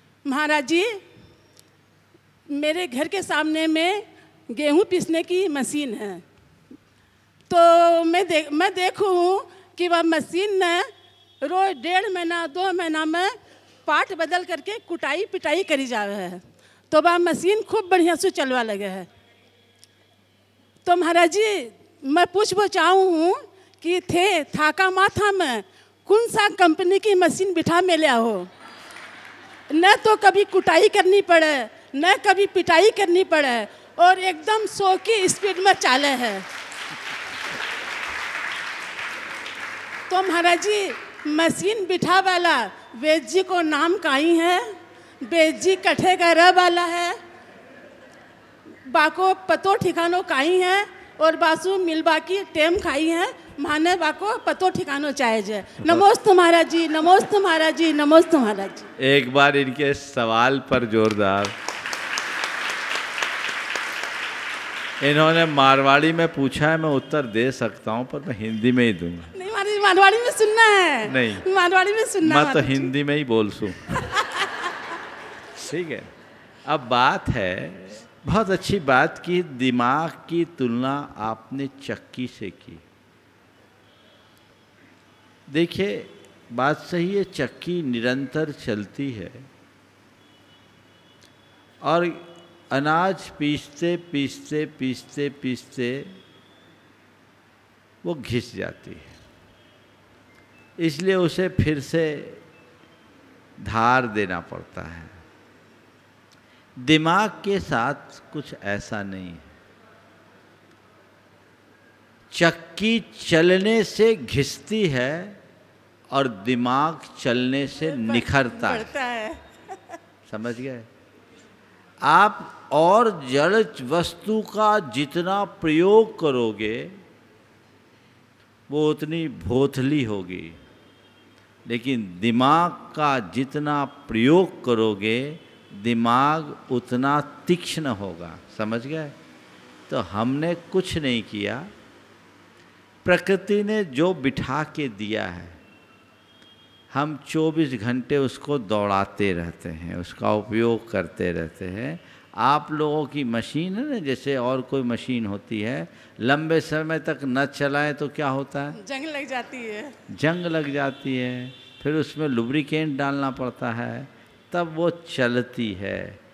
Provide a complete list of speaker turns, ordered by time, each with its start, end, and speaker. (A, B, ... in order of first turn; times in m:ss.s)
0:00.2-0:01.0 A
0:02.5-0:06.2 A
0:07.5-0:10.9 A
0:11.4-0:19.1 A
0:20.8-0:28.5 A
0:29.7-0:36.4 A
0:40.1-0:47.2 A
0:48.8-0:58.9 A
0:59.0-1:01.5 B
1:05.0-1:09.3 B
1:09.3-1:12.9 A
1:11.0-1:11.5 B
1:12.2-1:14.0 B
1:14.0-1:14.7 A
1:15.6-1:16.1 B
1:16.6-1:22.8 B
1:25.5-1:29.5 B
1:31.8-1:36.1 B
1:38.0-1:39.1 B
1:40.8-1:42.4 B
1:43.6-1:45.1 B
1:46.8-1:49.5 B
1:52.3-1:55.4 B
1:56.1-1:58.9 B
1:57.8-1:59.4 A
2:00.3-2:00.9 B
2:02.0-2:06.9 B
2:08.7-2:10.6 B
2:11.6-2:19.1 B
2:19.9-2:21.7 B
2:23.0-2:25.6 B
2:26.9-2:38.8 B
2:38.7-2:39.9 A
2:40.1-2:46.2 B